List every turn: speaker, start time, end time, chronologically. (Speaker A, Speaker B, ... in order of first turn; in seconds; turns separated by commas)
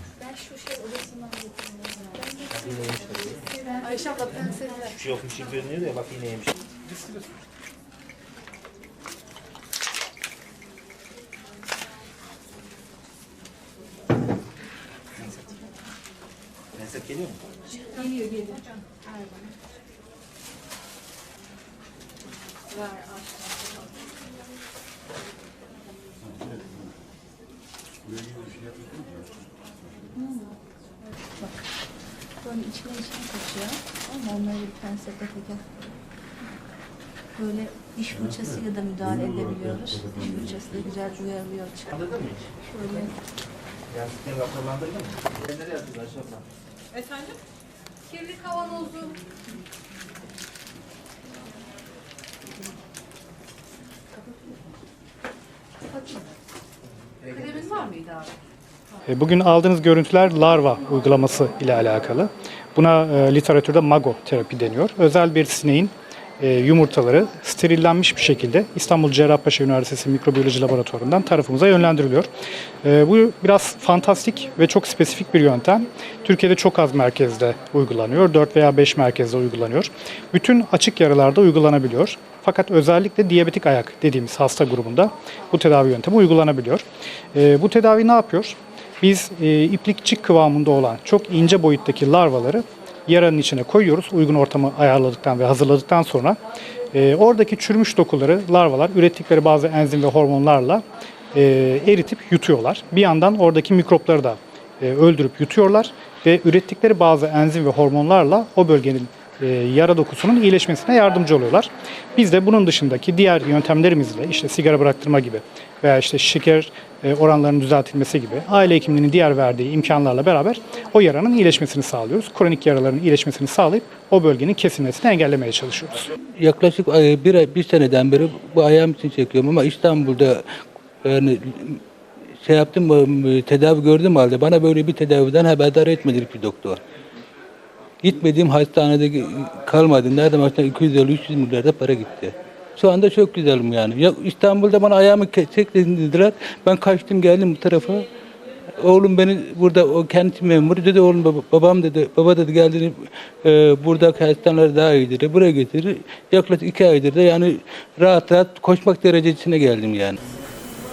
Speaker A: 0.2-2.3, Speaker B: 2.4-3.5, Speaker A: 3.5-4.8, Speaker C: 3.8-4.9, Speaker B: 4.9-6.5, Speaker B: 16.7-17.5, Speaker C: 17.9-18.6, Speaker A: 18.0-18.3, Speaker C: 22.8-23.1, Speaker A: 30.1-30.5, Speaker A: 31.4-31.6, Speaker A: 32.4-35.9, Speaker A: 37.3-41.9, Speaker B: 41.9-43.0, Speaker A: 42.6-43.1, Speaker B: 43.9-46.4, Speaker C: 47.0-47.3, Speaker C: 48.1-49.2, Speaker B: 57.2-57.9, Speaker C: 57.3-58.3, Speaker D: 59.0-72.3, Speaker D: 72.8-96.4, Speaker D: 96.9-126.1, Speaker E: 126.4-130.4, Speaker E: 131.0-131.8, Speaker E: 132.4-136.8, Speaker E: 138.0-148.1, Speaker E: 148.8-160.2